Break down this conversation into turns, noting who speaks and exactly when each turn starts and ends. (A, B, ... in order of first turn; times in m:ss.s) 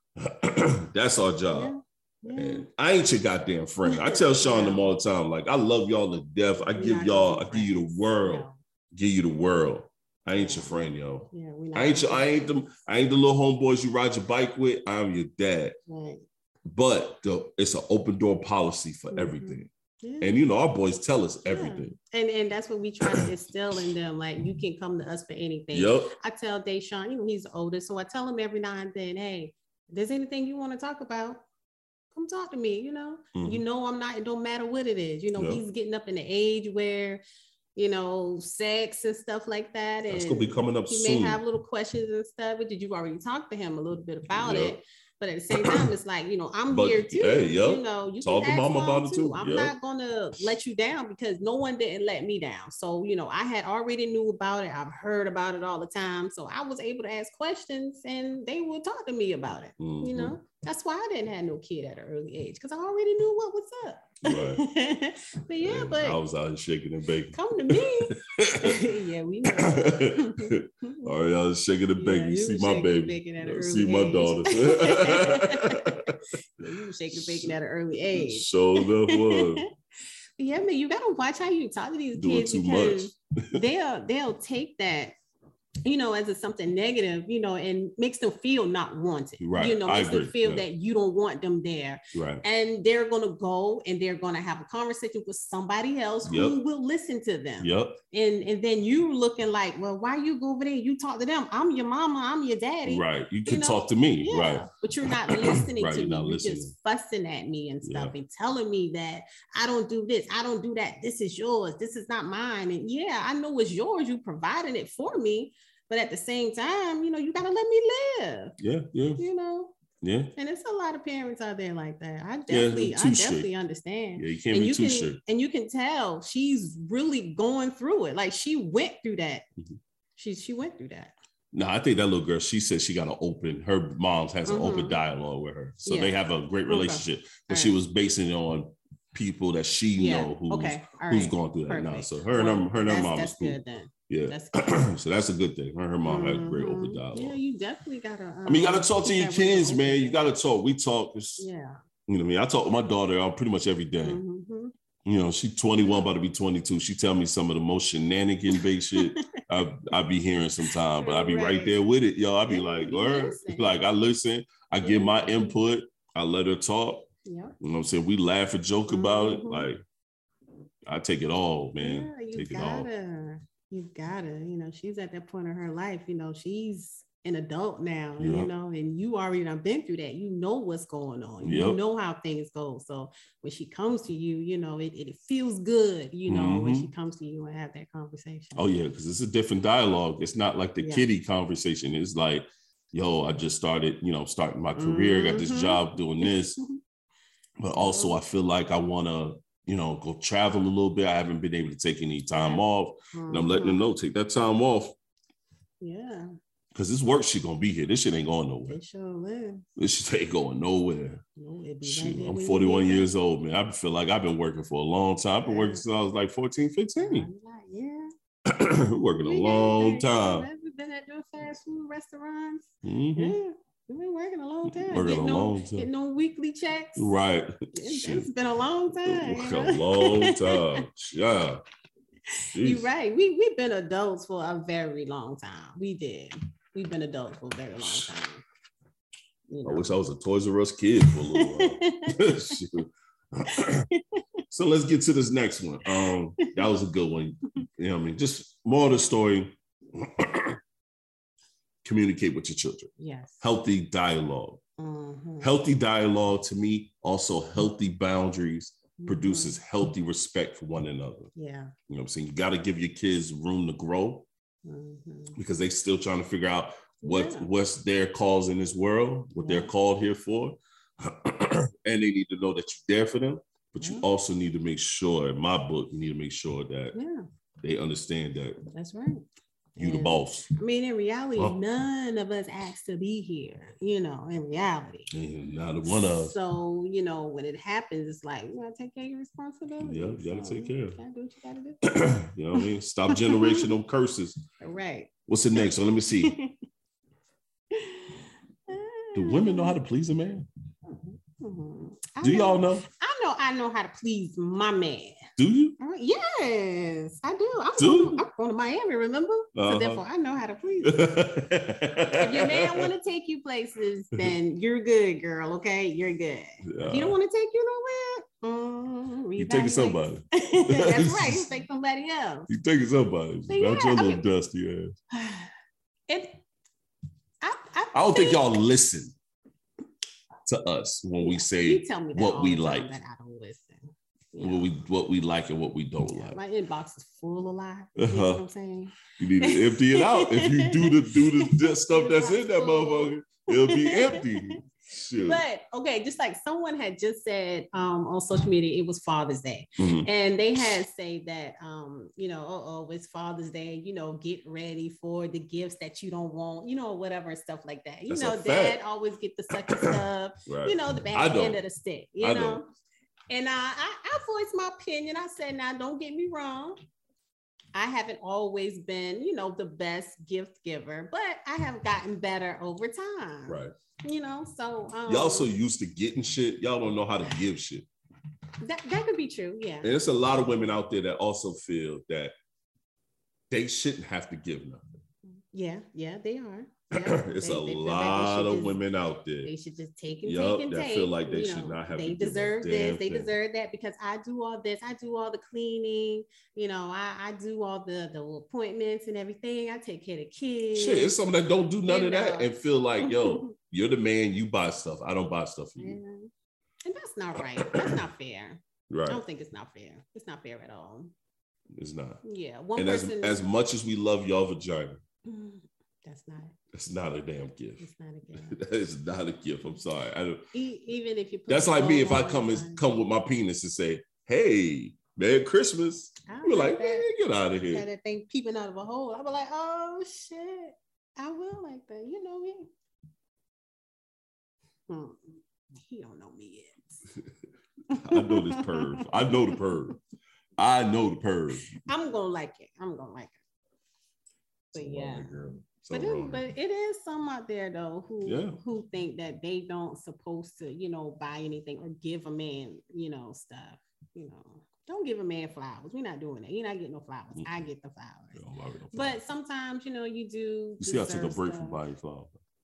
0:00.2-0:01.7 A
0:01.5-0:02.7 B
0:02.3-0:15.8 A
0:03.8-0:04.9 B
0:06.6-0:08.6 B
0:10.3-0:12.4 B
0:15.9-0:16.2 B
0:16.6-0:19.7 A
0:19.1-0:20.4 B
0:20.2-0:22.0 A
0:21.5-0:31.4 B
0:23.0-0:23.3 A
0:25.7-0:26.1 A
0:32.1-0:37.2 B
0:33.4-0:33.6 A
0:35.4-0:35.6 A
0:37.8-1:06.2 B
0:40.1-0:41.4 A
0:44.3-0:44.8 A
0:45.5-0:45.9 A
0:46.7-0:49.8 A
0:59.8-1:00.4 A
1:04.2-1:04.6 A
1:05.6-1:08.8 A
1:07.3-1:11.1 B
1:09.5-1:16.1 A
1:12.0-1:16.0 B
1:16.6-1:19.7 B
1:17.1-1:17.6 A
1:18.1-1:19.6 A
1:20.4-1:25.1 B
1:22.1-1:23.6 A
1:25.8-1:58.6 B
1:29.4-1:30.6 A
1:32.1-1:32.4 A
1:36.3-1:36.6 A
1:37.6-1:38.0 A
1:42.9-1:46.7 A
1:47.8-1:48.1 A
1:58.6-1:59.2 A
1:59.2-1:59.8 B
2:00.0-2:00.3 A
2:00.4-2:09.5 B
2:02.5-2:03.5 A
2:04.2-2:05.2 A
2:10.2-2:11.1 B
2:11.5-2:23.6 A
2:14.5-2:15.0 B
2:15.8-2:16.2 B
2:16.7-2:17.8 B
2:20.0-2:24.8 B
2:24.1-2:27.4 A
2:26.0-2:30.2 B
2:28.5-2:31.5 A
2:31.4-2:31.8 B
2:32.1-2:34.2 A
2:34.0-2:34.7 B
2:35.1-2:47.1 A
2:38.5-2:39.4 B
2:40.7-2:41.8 B
2:42.5-2:43.8 B
2:44.8-2:45.6 B
2:47.2-2:47.6 B
2:47.6-2:49.8 A
2:48.9-2:49.7 B
2:50.9-2:52.9 A
2:51.8-3:08.7 B
2:58.2-2:58.5 A
3:01.4-3:01.8 A
3:06.3-3:06.9 A
3:08.6-3:16.6 A
3:10.8-3:11.1 B
3:14.8-3:16.8 B
3:17.6-3:25.0 A
3:17.8-3:18.2 B
3:22.3-3:23.8 B
3:25.8-3:26.3 B
3:26.7-3:28.8 A
3:28.7-3:29.7 B
3:29.8-3:31.2 A
3:31.4-3:33.1 B
3:31.8-3:37.3 A
3:35.4-3:35.8 B
3:37.0-3:38.1 B
3:38.5-3:40.5 A
3:39.2-3:47.1 B
3:42.8-3:43.4 A
3:44.7-3:45.9 A
3:47.0-3:48.3 A
3:47.7-3:50.8 B
3:49.0-3:51.6 A
3:52.4-3:58.4 B
3:52.5-3:52.9 A
3:57.8-3:58.1 A
3:59.5-3:59.9 B
3:59.6-4:03.9 A
4:01.3-4:02.6 B
4:03.5-4:04.2 B
4:04.5-4:10.6 A
4:05.9-4:06.6 B
4:11.8-4:14.6 A
4:13.0-4:13.4 B
4:14.8-4:15.5 B
4:15.4-4:21.3 A
4:19.0-4:19.6 B
4:21.4-4:21.7 B
4:21.9-4:24.3 A
4:24.6-4:25.4 B
4:25.4-4:37.0 A
4:27.0-4:27.5 B
4:29.4-4:29.7 B
4:33.8-4:34.1 B
4:36.9-4:37.3 B
4:37.6-4:38.6 A
4:38.7-4:39.2 B
4:39.8-4:45.1 B
4:39.8-4:40.5 A
4:45.1-4:46.4 A
4:45.9-4:52.0 B
4:49.8-4:51.0 A
4:51.8-4:54.4 A
4:52.6-4:53.7 B
4:54.6-4:55.7 B
4:55.3-4:56.4 A
4:56.2-4:56.6 B
4:57.7-4:59.8 B
4:59.2-5:00.5 A
5:00.9-5:05.2 B
5:02.2-5:02.9 A
5:05.4-5:05.8 A
5:05.8-5:11.1 B
5:07.8-5:08.2 A
5:09.6-5:10.0 A
5:10.8-5:12.9 A
5:12.2-5:22.5 B
5:16.6-5:17.2 A
5:19.4-5:21.5 A
5:22.5-5:25.0 A
5:23.5-5:24.3 B
5:25.1-5:25.5 B
5:26.1-5:26.4 B
5:27.4-5:28.6 B
5:27.9-5:29.2 A
5:30.5-5:32.9 A
5:31.2-5:34.7 B
5:34.4-5:36.4 A
5:36.1-5:44.6 B
5:38.0-5:38.4 A
5:39.1-5:45.4 A
5:45.2-6:02.7 B
5:49.8-5:50.1 A
5:58.1-5:58.8 A
5:59.5-6:01.6 A
6:02.2-6:02.6 A
6:03.3-6:06.8 B
6:07.7-6:15.5 B
6:13.5-6:13.7 A
6:15.1-6:17.9 A
6:18.6-6:20.5 B
6:19.8-6:22.3 A
6:23.5-6:25.0 A
6:25.3-6:28.8 B
6:26.9-6:29.5 A
6:29.4-6:41.2 B
6:30.2-6:33.3 A
6:40.7-6:46.0 A
6:41.8-6:43.5 B
6:45.8-6:46.3 B
6:46.8-6:51.1 B
6:47.4-6:48.0 A
6:48.9-6:49.2 A
6:51.7-6:52.2 A
6:52.2-6:53.5 B
6:52.8-6:55.0 A
6:55.3-6:56.6 B
6:56.7-6:57.9 A
6:57.8-6:58.6 B
6:58.5-7:00.5 A
7:00.5-7:03.2 B
7:01.5-7:07.9 A
7:06.3-7:07.1 B
7:07.7-7:12.7 B
7:14.9-7:17.0 B
7:17.9-7:19.6 B
7:18.0-7:20.0 A
7:20.6-7:21.7 A
7:21.7-7:23.4 B
7:24.7-7:25.3 B
7:24.7-7:26.4 A
7:25.9-7:38.4 B
7:28.2-7:28.6 A
7:37.3-7:37.6 A
7:38.3-7:39.2 A
7:38.9-7:41.8 B
7:40.8-7:42.4 A